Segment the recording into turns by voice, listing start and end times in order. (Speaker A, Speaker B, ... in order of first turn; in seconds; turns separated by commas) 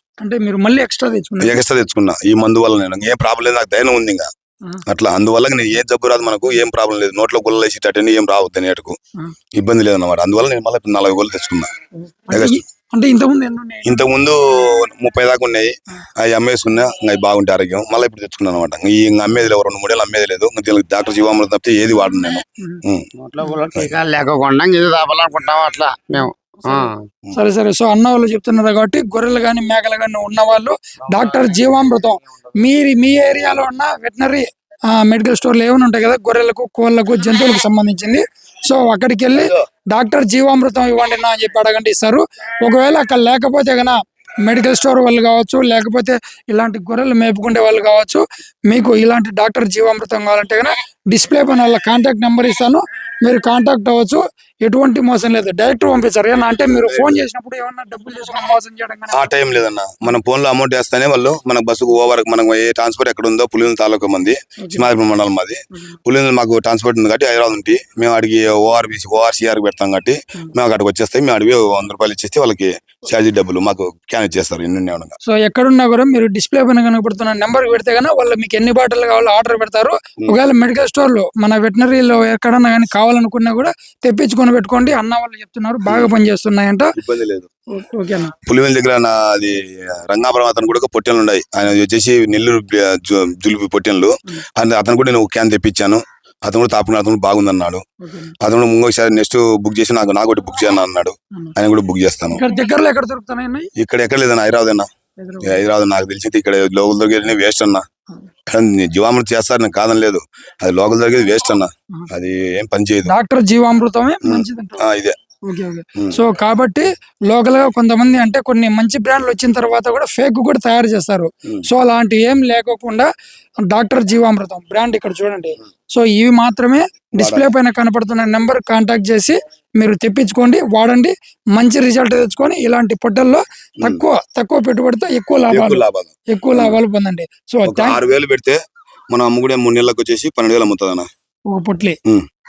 Speaker A: 0.2-1.6, Speaker B: 1.4-4.3, Speaker B: 4.9-9.0, Speaker B: 9.5-11.7, Speaker A: 12.0-14.0, Speaker B: 12.3-12.6, Speaker B: 13.8-23.1, Speaker C: 23.2-26.9, Speaker A: 23.4-23.7, Speaker A: 26.6-59.3, Speaker C: 31.1-31.5, Speaker B: 56.8-57.2, Speaker B: 59.1-75.2, Speaker A: 64.6-64.9, Speaker A: 75.2-86.9, Speaker B: 87.0-87.5, Speaker A: 87.7-88.3, Speaker B: 88.5-97.8, Speaker A: 98.0-98.3, Speaker B: 98.4-102.4, Speaker A: 102.3-103.7, Speaker B: 103.8-104.9, Speaker A: 105.2-105.6, Speaker B: 105.4-107.8, Speaker B: 108.5-113.1, Speaker A: 113.0-114.9, Speaker B: 114.2-115.2, Speaker A: 115.5-123.1, Speaker A: 123.6-138.0, Speaker B: 127.2-127.5, Speaker B: 135.5-136.8, Speaker B: 137.7-138.6, Speaker B: 139.1-141.1, Speaker A: 141.5-142.0